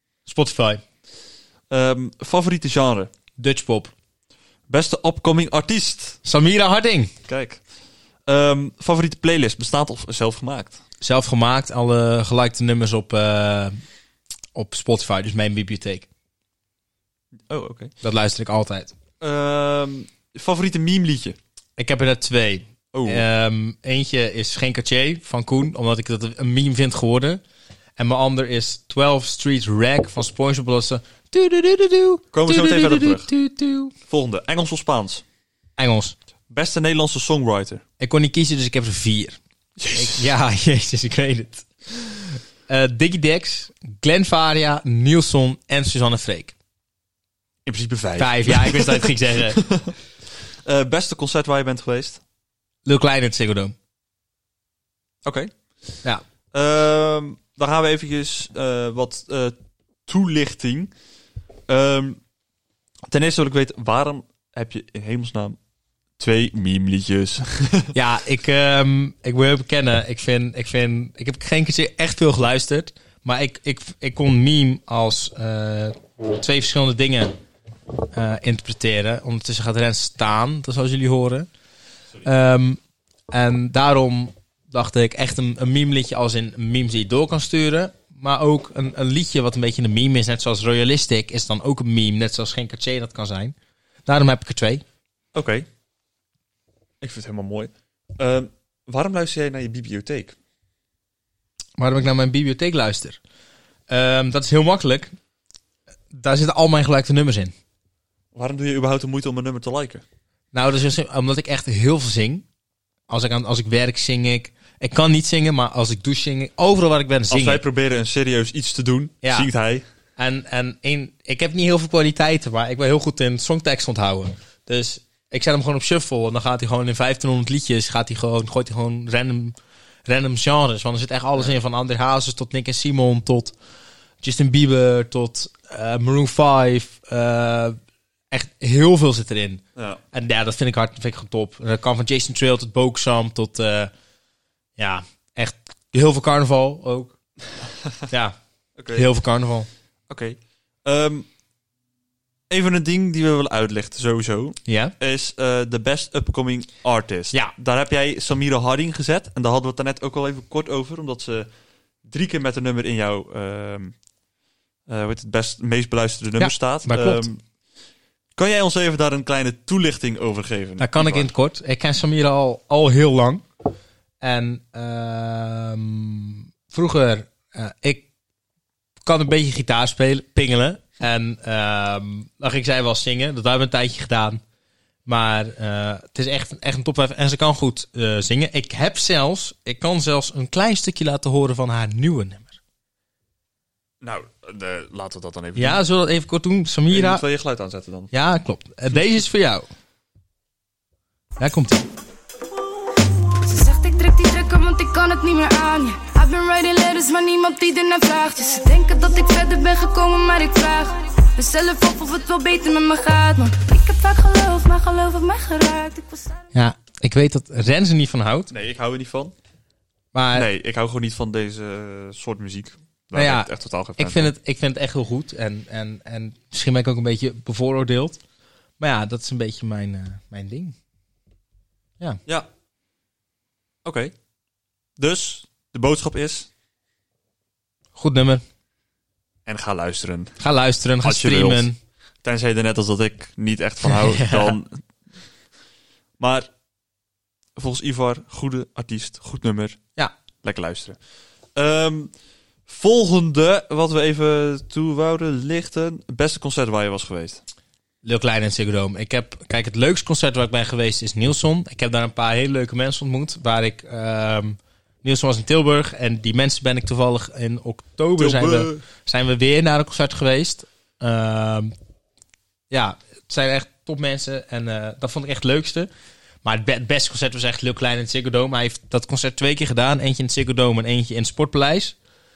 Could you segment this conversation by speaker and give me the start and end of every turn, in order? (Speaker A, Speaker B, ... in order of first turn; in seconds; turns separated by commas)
Speaker A: 0.3-0.8, Speaker B: 1.7-3.1, Speaker A: 3.4-3.9, Speaker B: 4.7-6.2, Speaker A: 6.2-7.1, Speaker B: 7.3-7.6, Speaker B: 8.3-10.8, Speaker A: 11.0-13.8, Speaker A: 14.6-16.1, Speaker B: 17.5-17.9, Speaker A: 18.0-18.9, Speaker B: 19.2-21.4, Speaker A: 21.8-27.4, Speaker B: 22.9-23.2, Speaker A: 28.0-33.9, Speaker B: 32.3-33.3, Speaker B: 34.1-35.2, Speaker A: 35.8-36.1, Speaker B: 36.5-37.8, Speaker A: 38.0-39.4, Speaker B: 39.8-40.3, Speaker A: 39.9-46.5, Speaker B: 47.6-49.9, Speaker A: 48.2-49.6, Speaker B: 50.5-52.2, Speaker A: 52.9-53.7, Speaker B: 55.2-55.5, Speaker B: 56.5-59.6, Speaker B: 60.1-60.9, Speaker B: 61.7-62.2, Speaker B: 63.1-65.6, Speaker B: 66.2-68.0, Speaker A: 67.9-77.4, Speaker A: 78.1-81.5, Speaker A: 82.2-82.8, Speaker A: 83.3-93.5, Speaker A: 94.1-94.8, Speaker B: 95.3-95.7, Speaker B: 97.0-100.4, Speaker A: 101.8-103.2, Speaker A: 103.9-105.1, Speaker A: 106.1-107.5, Speaker B: 108.3-110.0, Speaker A: 110.5-112.5, Speaker A: 113.1-117.6, Speaker B: 117.3-119.8, Speaker A: 119.2-119.5, Speaker A: 120.2-133.6, Speaker A: 134.2-137.8, Speaker A: 138.3-143.9, Speaker B: 139.8-140.0, Speaker A: 144.8-147.2, Speaker A: 148.1-148.4, Speaker B: 148.8-149.1, Speaker A: 148.9-149.7, Speaker B: 150.1-151.3, Speaker B: 152.5-161.5, Speaker A: 154.7-154.9, Speaker B: 162.0-163.9, Speaker B: 164.9-167.4, Speaker A: 166.4-167.3, Speaker B: 168.4-171.3, Speaker A: 170.8-173.4, Speaker A: 174.2-178.1, Speaker A: 179.0-184.4, Speaker A: 185.1-192.6, Speaker B: 194.0-195.8, Speaker A: 195.6-197.2, Speaker B: 196.9-198.1, Speaker A: 198.1-199.7, Speaker A: 201.4-201.9, Speaker C: 203.4-216.4, Speaker A: 216.5-218.5, Speaker B: 218.5-219.3, Speaker A: 220.1-220.5, Speaker B: 220.3-224.3, Speaker A: 223.2-228.2, Speaker A: 228.8-230.8, Speaker B: 233.8-234.1, Speaker B: 235.0-236.5, Speaker A: 238.0-238.4, Speaker B: 239.5-240.4, Speaker A: 240.4-241.8, Speaker B: 241.0-241.7, Speaker B: 242.2-244.8, Speaker A: 243.8-244.6, Speaker B: 246.2-246.5, Speaker B: 247.6-249.8, Speaker B: 250.4-251.0, Speaker B: 251.6-252.1, Speaker B: 252.7-257.4, Speaker A: 258.0-271.7, Speaker B: 268.2-268.8, Speaker A: 272.7-275.9, Speaker A: 276.4-282.0